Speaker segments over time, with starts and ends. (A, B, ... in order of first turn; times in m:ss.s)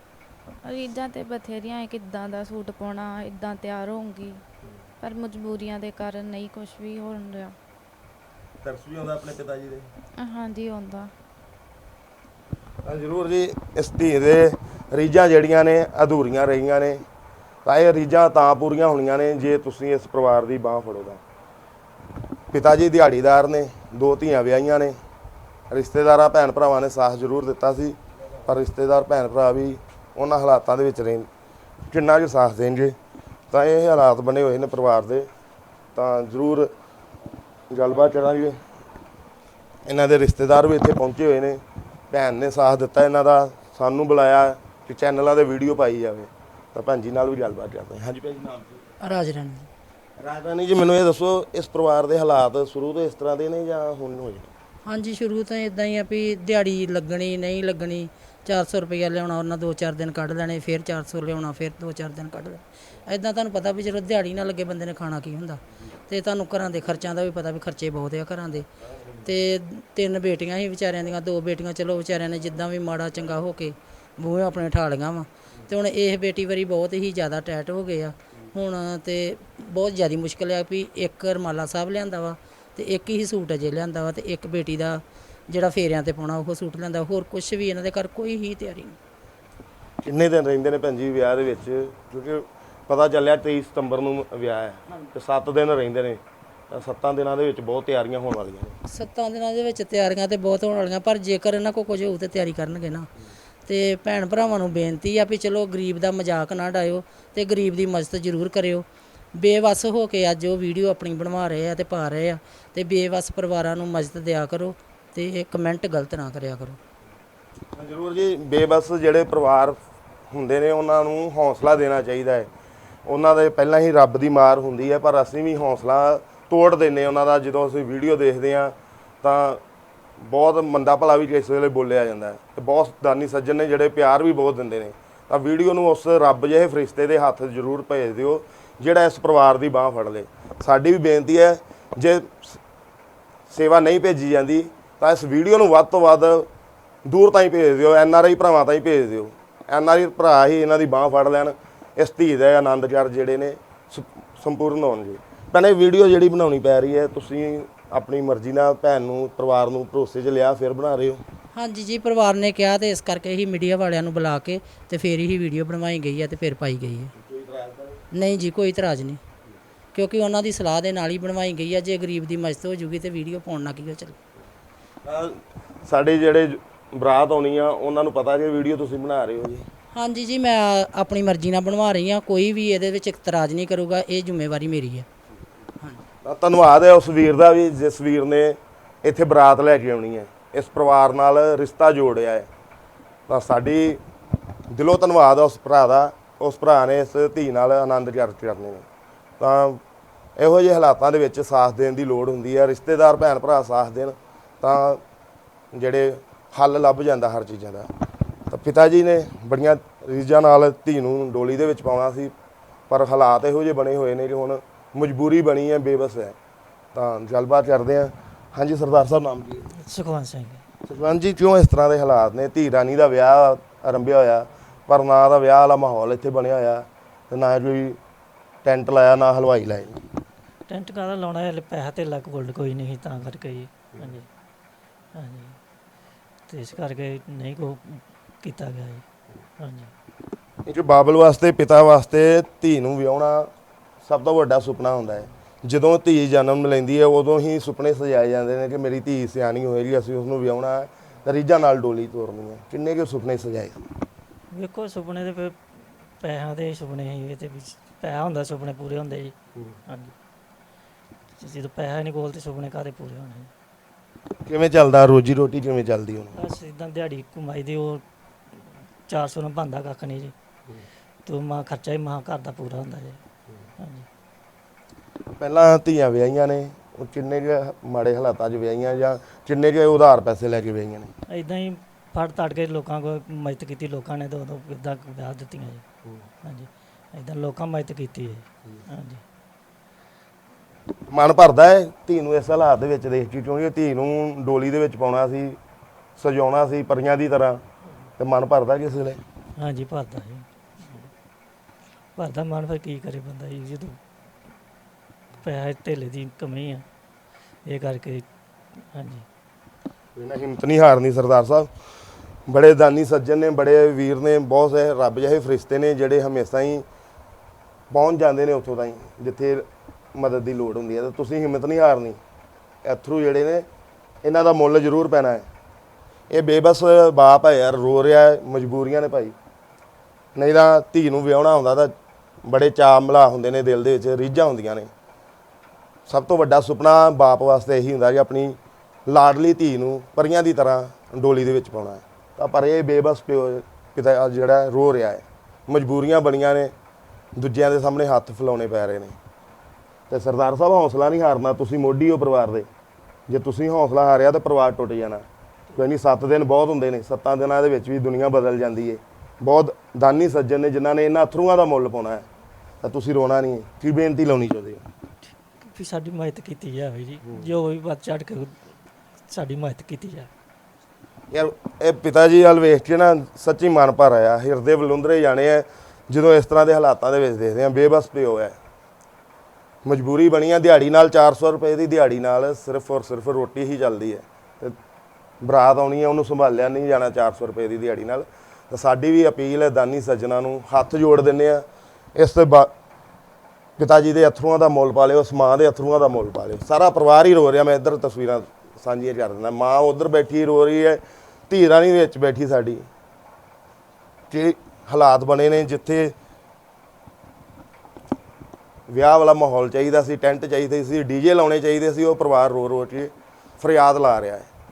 0:00.6-0:04.4 A
0:05.0-0:07.6 A
0:08.6-0:09.9 B
0:10.2-0:11.1 A
0:12.8-0:17.1 B
0:17.6-0:21.2 B
0:22.5-0:25.0 B
0:25.7-0:31.3 B
0:31.9-0:33.0 B
0:33.5-0:35.3 B
0:36.0-0:36.7 B
0:37.7-0:38.6 B
0:39.9-0:49.0 B
0:49.0-0:49.7 C
0:50.2-0:54.5 B
0:54.9-1:08.7 C
1:09.2-1:29.0 C
1:30.0-1:38.8 B
1:38.9-1:43.1 C
1:43.7-1:56.8 C
1:57.7-1:59.8 B
2:00.3-2:02.5 B
2:03.1-2:09.6 B
2:10.2-2:22.6 B
2:23.5-2:26.5 B
2:27.0-2:41.2 B
2:41.5-2:47.1 C
2:47.1-2:48.0 B
2:48.1-2:49.2 C
2:49.9-2:54.2 C
2:55.0-2:59.7 B
2:59.9-3:05.1 C
3:06.2-3:12.5 B
3:13.3-3:14.0 B
3:14.7-3:18.9 B
3:19.4-3:19.8 B
3:20.4-3:25.0 B
3:25.7-3:27.9 B
3:28.5-3:32.3 B
3:32.9-3:36.4 B
3:36.9-3:39.7 B
3:39.8-3:40.6 D
3:40.9-3:48.0 B
3:48.6-3:50.0 B
3:50.7-3:54.3 D
3:55.1-3:55.6 D
3:56.5-3:59.0 D
3:59.6-3:59.9 D
4:00.6-4:03.5 B
4:04.0-4:13.9 B
4:14.5-4:19.4 D
4:19.9-4:20.1 D
4:21.4-4:23.5 D
4:24.5-4:26.4 B
4:26.4-4:30.3 D
4:31.2-4:33.2 D
4:33.8-4:34.1 D
4:35.4-4:41.1 B
4:41.3-4:45.8 D
4:46.4-4:49.2 D
4:51.1-4:55.6 B
4:56.2-4:57.6 B
4:58.2-4:59.2 B
4:59.6-5:01.1 D
5:02.2-5:04.0 D
5:05.4-5:06.8 D
5:07.7-5:09.3 D
5:10.2-5:11.7 B
5:12.5-5:16.8 B
5:17.9-5:22.2 B
5:22.8-5:23.7 B
5:24.2-5:25.5 B
5:26.3-5:29.4 B
5:30.4-5:34.9 B
5:36.1-5:46.7 B
5:47.4-5:49.2 B
5:50.1-5:52.7 B
5:53.3-6:02.3 B
6:02.8-6:04.9 B
6:05.6-6:08.7 D
6:09.3-6:10.3 D
6:11.3-6:18.6 B
6:19.8-6:24.8 B
6:25.4-6:32.7 B
6:33.8-6:42.9 B
6:44.3-6:46.2 B
6:48.9-6:54.5 B